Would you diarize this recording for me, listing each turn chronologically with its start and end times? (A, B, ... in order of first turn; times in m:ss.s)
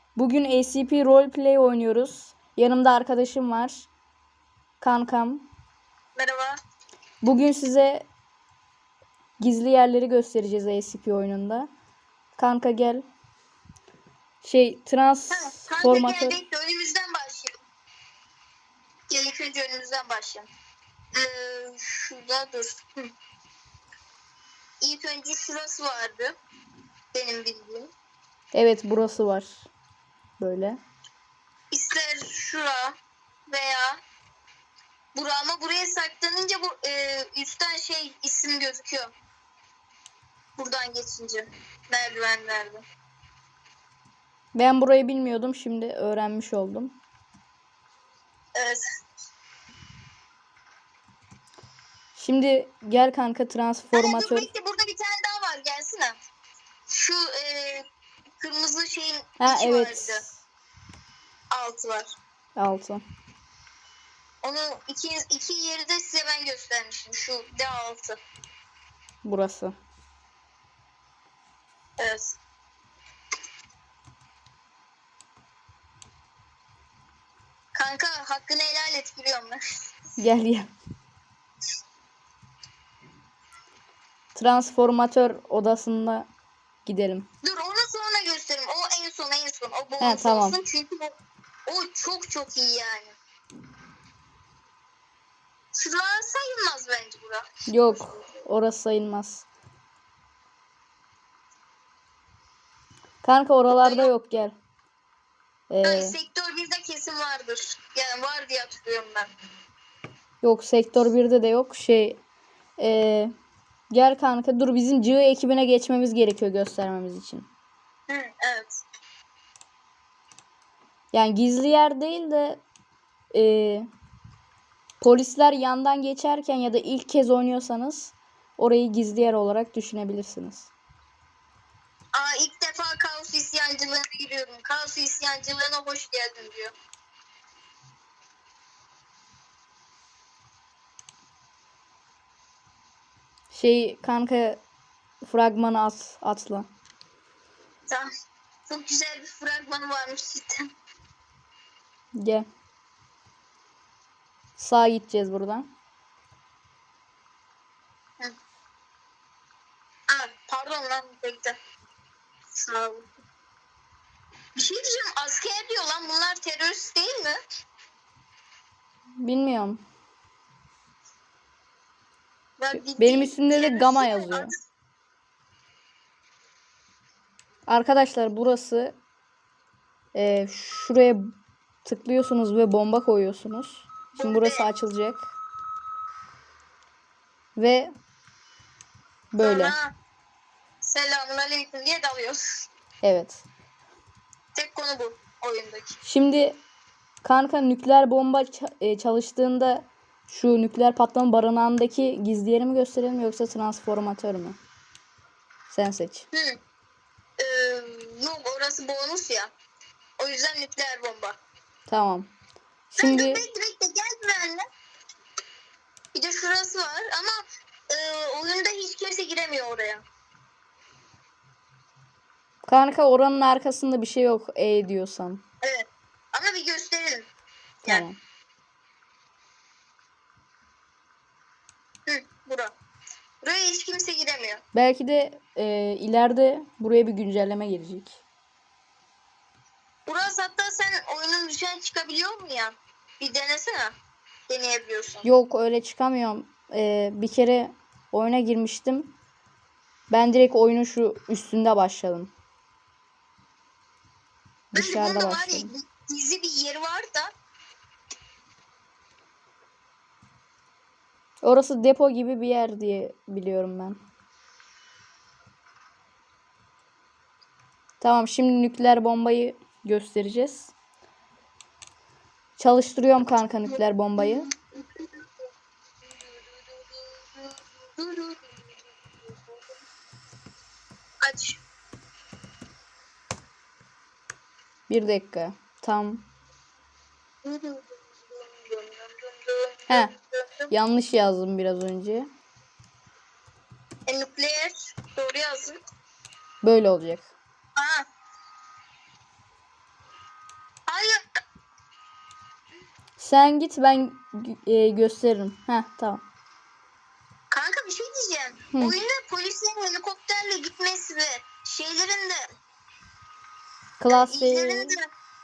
0:00.2-0:03.9 A
0:04.8-0:05.4 A
0:06.2-0:06.6 B
0:07.2-0:08.1 A
0:09.4-0:11.7 A
0:12.4-0:13.0 A
0:14.4-0:16.4 A
0:15.3-0:17.5 B
0:19.1-0:20.5 B
0:21.1-0:23.1 B
0:24.8-0:26.4 B
0:27.1-0:27.9 B
0:28.5-0:29.7 A
0:30.4-0:30.8 A
0:31.7-0:33.0 B
0:33.5-0:34.0 B
0:35.1-0:39.1 B
0:40.6-0:42.8 B
0:44.5-0:47.0 A
0:48.5-0:48.8 B
0:52.2-0:54.5 A
0:53.9-0:56.2 B
0:56.9-0:57.8 B
0:58.4-1:00.2 B
0:59.4-1:00.3 A
1:01.5-1:02.1 B
1:02.6-1:03.0 A
1:04.4-1:08.2 B
1:09.2-1:09.7 A
1:12.0-1:12.4 B
1:17.7-1:19.6 B
1:20.2-1:20.7 A
1:24.3-1:26.3 A
1:26.8-1:27.3 A
1:27.4-1:33.2 B
1:30.0-1:30.6 A
1:35.7-1:38.3 B
1:37.7-1:39.4 A
1:43.2-1:44.5 A
1:43.7-1:44.1 B
1:45.7-1:46.2 A
1:45.8-1:49.3 B
1:50.4-1:52.2 A
1:52.8-1:53.3 A
1:53.9-1:57.5 A
1:58.1-1:58.8 B
2:01.1-2:02.6 A
2:03.3-2:03.8 A
2:05.0-2:10.7 A
2:12.1-2:16.7 B
2:23.5-2:24.6 A
2:25.2-2:26.7 A
2:28.7-2:30.7 B
2:32.2-2:32.5 A
2:34.6-2:35.7 A
2:40.1-2:41.6 B
2:42.5-2:43.1 B
2:44.5-2:47.4 B
2:49.2-2:49.8 A
2:52.6-2:54.5 B
2:52.7-2:54.5 A
2:57.7-2:59.0 A
3:00.1-3:01.3 A
3:01.8-3:05.3 A
3:04.1-3:04.6 B
3:07.6-3:07.9 A
3:09.3-3:09.7 A
3:09.4-3:09.9 B
3:10.8-3:12.4 B
3:13.0-3:13.4 A
3:14.5-3:16.0 B
3:16.0-3:16.6 A
3:17.2-3:24.6 A
3:25.7-3:26.3 A
3:26.3-3:26.6 B
3:27.4-3:29.5 B
3:30.2-3:31.4 B
3:31.9-3:32.3 A
3:32.9-3:33.4 A
3:33.0-3:34.6 B
3:36.1-3:40.0 B
3:42.6-3:45.4 A
3:45.6-3:47.3 B
3:47.8-3:48.2 A
3:52.0-3:52.7 B
3:53.4-3:54.6 B
3:54.7-3:58.2 A
4:00.0-4:04.0 B
4:04.5-4:05.3 B
4:05.2-4:09.1 A
4:10.1-4:12.3 A
4:14.7-4:15.7 A
4:14.7-4:17.3 B
4:21.4-4:24.0 A
4:28.0-4:30.7 A
4:32.6-4:34.5 A
4:33.7-4:35.2 B
4:36.1-4:39.8 B
4:41.2-4:41.6 B
4:44.9-4:46.2 A
4:47.4-4:50.7 B
4:50.7-4:52.3 A
4:54.0-4:55.8 B
4:56.6-4:57.3 A
4:57.8-4:58.0 B
5:00.9-5:01.2 B
5:03.2-5:06.2 A
5:07.5-5:12.4 B
5:14.0-5:15.0 A
5:14.1-5:15.0 B